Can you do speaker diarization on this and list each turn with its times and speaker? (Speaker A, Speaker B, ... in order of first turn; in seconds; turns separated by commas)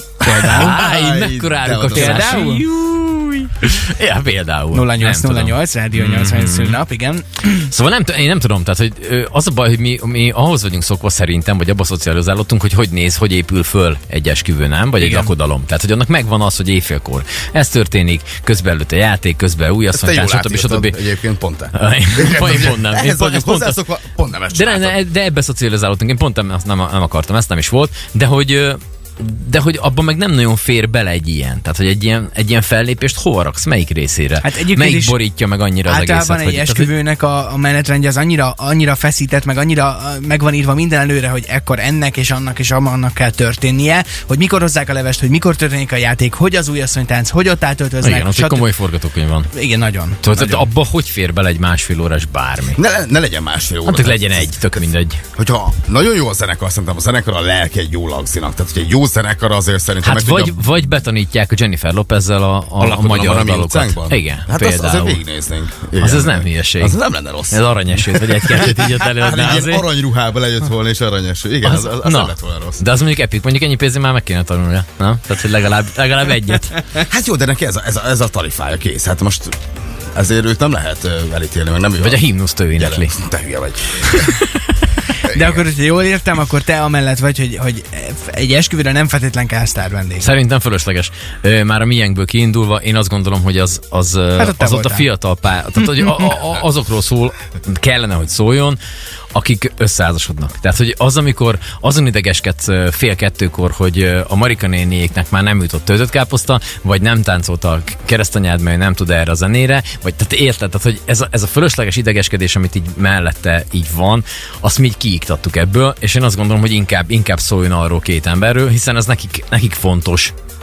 Speaker A: 0.2-0.7, Speaker B: 0.2-2.5, Speaker C: 0.5-6.8, Speaker A: 1.9-2.6, Speaker A: 4.7-7.7, Speaker C: 7.7-21.0, Speaker A: 15.0-15.3, Speaker B: 19.9-25.0, Speaker C: 21.7-23.8, Speaker C: 24.5-36.9, Speaker A: 34.4-35.2, Speaker A: 35.9-48.6, Speaker C: 48.0-49.5, Speaker A: 49.5-50.6, Speaker C: 50.2-52.8, Speaker B: 52.8-54.8, Speaker C: 53.8-55.2, Speaker B: 55.4-60.6, Speaker C: 60.0-65.2, Speaker B: 62.8-72.8, Speaker C: 66.0-69.8, Speaker C: 71.6-76.8, Speaker B: 77.0-79.6, Speaker B: 80.1-82.3, Speaker C: 82.0-83.1, Speaker B: 82.8-84.3, Speaker C: 84.3-84.6, Speaker B: 85.2-85.6, Speaker A: 85.3-90.3, Speaker C: 90.2-98.8, Speaker A: 94.4-95.1, Speaker A: 95.8-96.3, Speaker C: 99.3-120.3